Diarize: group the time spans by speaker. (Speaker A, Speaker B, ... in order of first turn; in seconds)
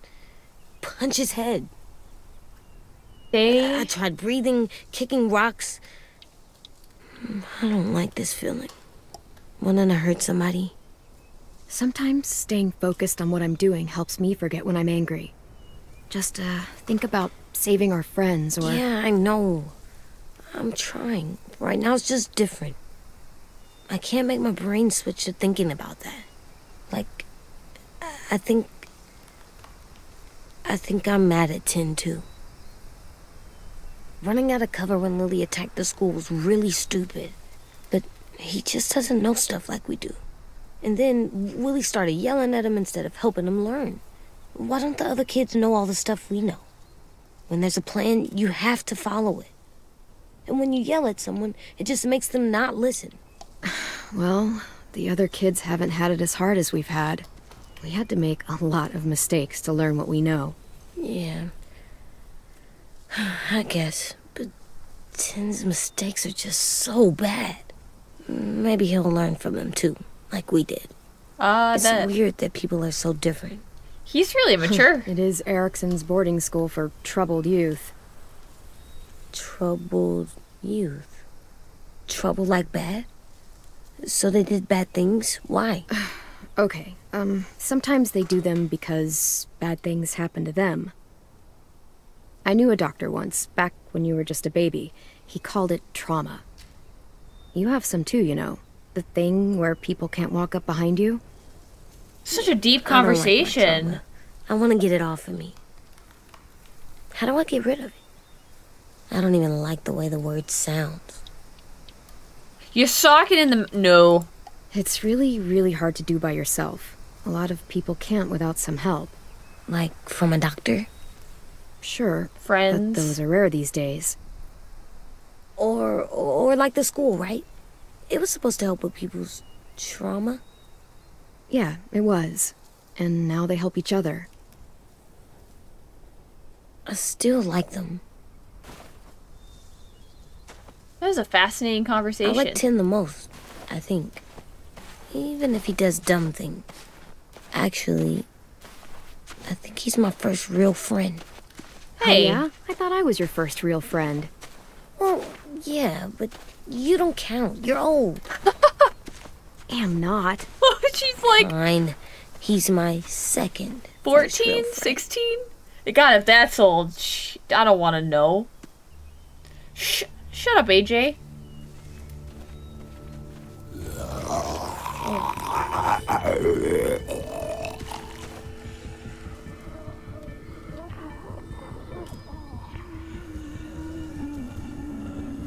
Speaker A: 0.8-1.7, 3.5-5.8, 7.2-8.7, 9.6-10.7, 18.6-19.7, 20.5-22.8, 23.9-26.3, 26.9-27.2, 28.0-28.9, 30.6-32.2, 34.2-37.4, 37.9-40.2, 40.8-44.0, 44.5-46.6, 47.5-49.5, 50.5-53.2, 61.0-61.5, 63.1-64.5, 65.1-67.7, 68.2-70.9, 71.7-73.6, 79.3-81.2, 82.1-83.1, 84.0-85.8, 102.3-105.6, 107.1-108.0, 109.1-111.2, 119.7-120.9, 125.6-127.5, 128.1-130.4, 136.8-138.0, 142.2-144.2, 145.1-146.6, 147.5-148.3, 149.4-151.2, 155.0-158.2, 161.4-165.0
Speaker B: 3.3-3.9, 71.4-72.1, 74.1-75.1, 102.2-104.0, 112.7-114.3, 122.4-123.2, 141.0-142.6, 152.0-152.4, 160.6-161.5, 164.0-168.5, 169.8-171.2
Speaker C: 11.7-15.3, 16.1-18.8, 53.6-57.3, 57.8-60.6, 74.7-77.9, 85.9-90.9, 92.4-96.4, 97.5-101.2, 114.7-119.2, 121.8-124.2, 131.5-134.3, 152.0-154.3, 159.7-160.5